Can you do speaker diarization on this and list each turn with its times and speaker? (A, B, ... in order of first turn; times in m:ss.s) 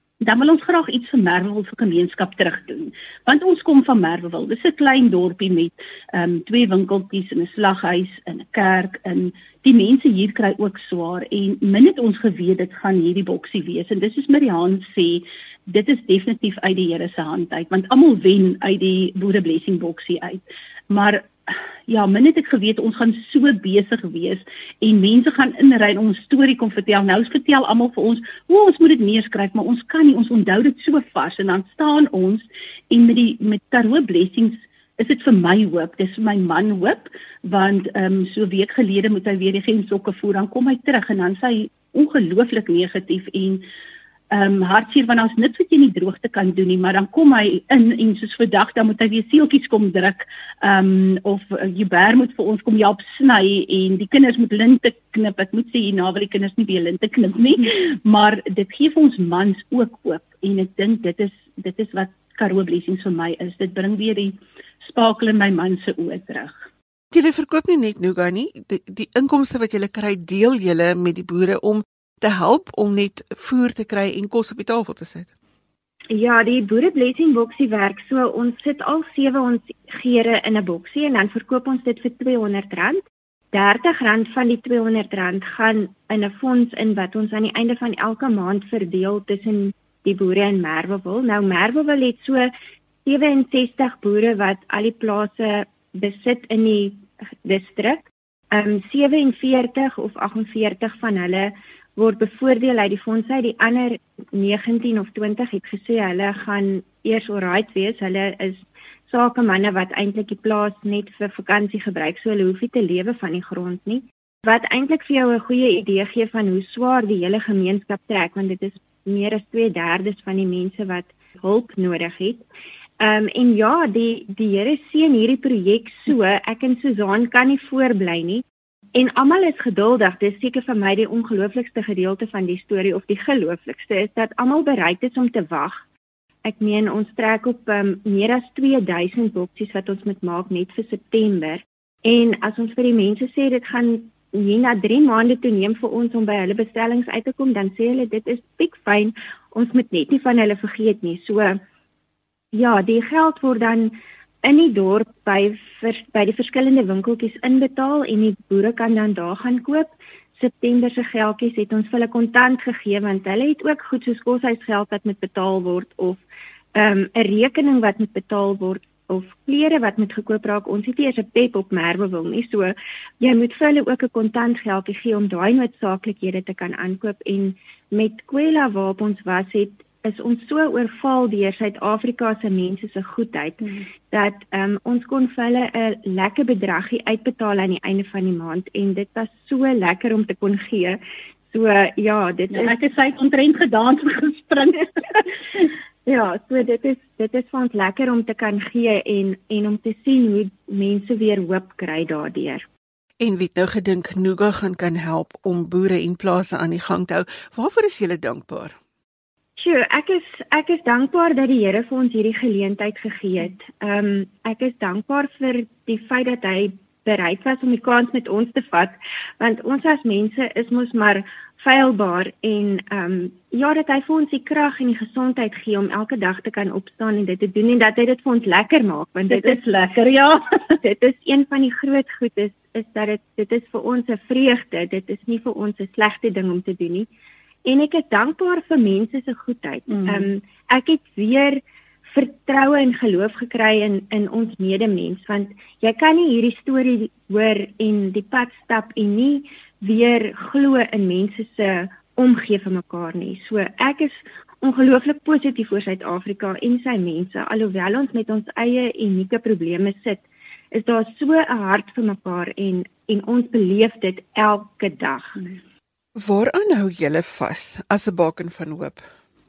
0:00.2-0:43.6 A
0:44.3-1:06.6 A
1:07.1-1:15.3 B
1:16.1-1:23.0 C
1:23.5-1:32.5 C
1:33.0-2:02.4 C
2:03.0-2:08.4 C
2:08.9-2:15.8 C
2:16.4-2:31.6 C
2:32.5-2:46.2 C
2:46.7-3:12.7 C
3:12.5-3:15.2 A
3:16.0-3:22.6 C
3:23.2-3:28.8 B
3:29.6-3:49.6 C
3:49.3-3:50.4 A
3:50.8-3:57.1 C
3:57.6-4:25.4 C
3:59.9-4:00.3 A
4:26.2-4:29.0 B